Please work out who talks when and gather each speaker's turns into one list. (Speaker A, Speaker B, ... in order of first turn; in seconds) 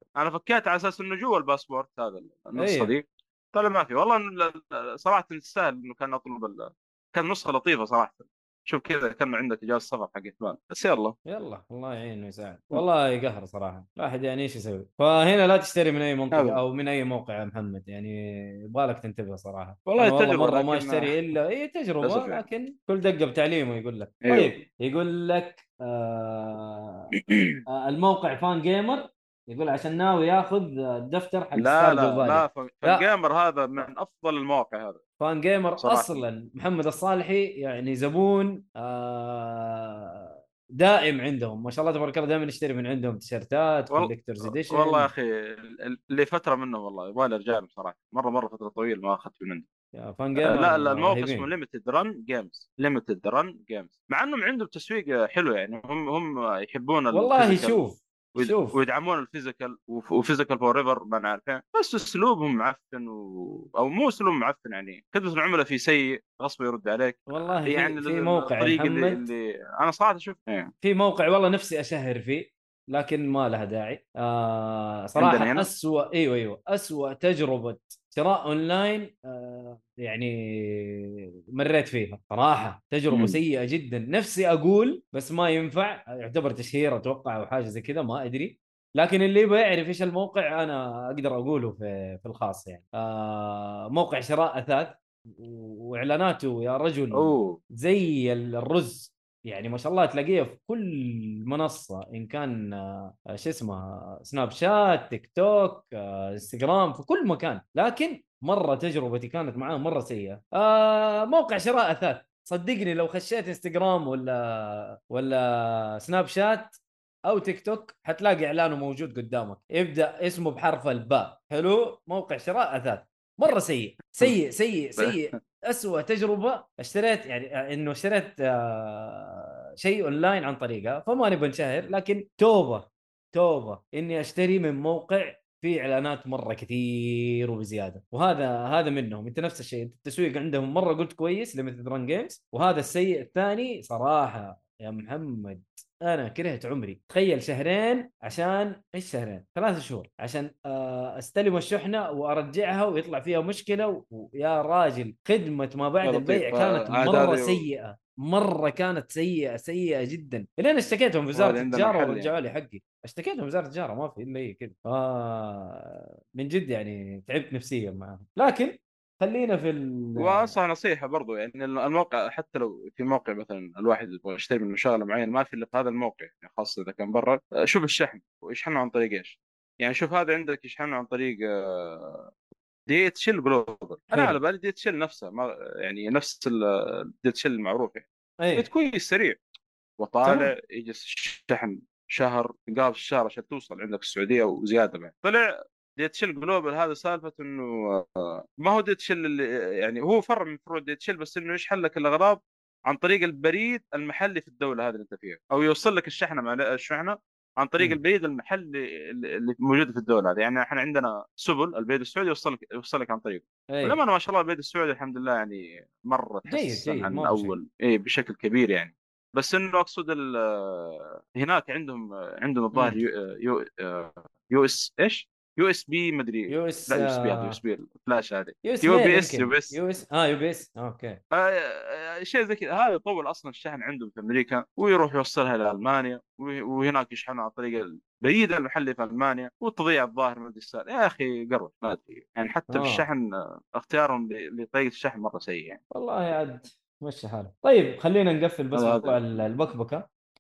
Speaker A: 0.2-11.2, 16.3-16.6, 19.9-21.1, 22.0-22.4, 24.2-24.6, 27.2-27.6, 31.6-35.0, 35.8-36.2, 43.9-49.7, 50.4-57.8, 58.3-70.7, 75.2-75.7, 83.1-83.4, 97.1-97.6, 156.0-157.7, 161.3-162.3, 170.2-182.3, 182.9-186.6, 187.2-189.4, 190.0-195.4, 196.0-229.8, 231.3-243.2, 243.8-245.8, 248.8-249.2
Speaker B: 2.6-2.9, 11.3-27.1, 27.7-33.1, 35.2-45.1, 50.0-51.5, 57.1-58.8, 67.3-69.3, 70.8-170.5, 184.1-184.4, 188.4-188.7, 190.2-190.5, 213.7-214.0, 216.5-217.6, 222.7-223.0, 226.5-227.6, 228.6-231.2, 242.7-243.1, 245.9-250.0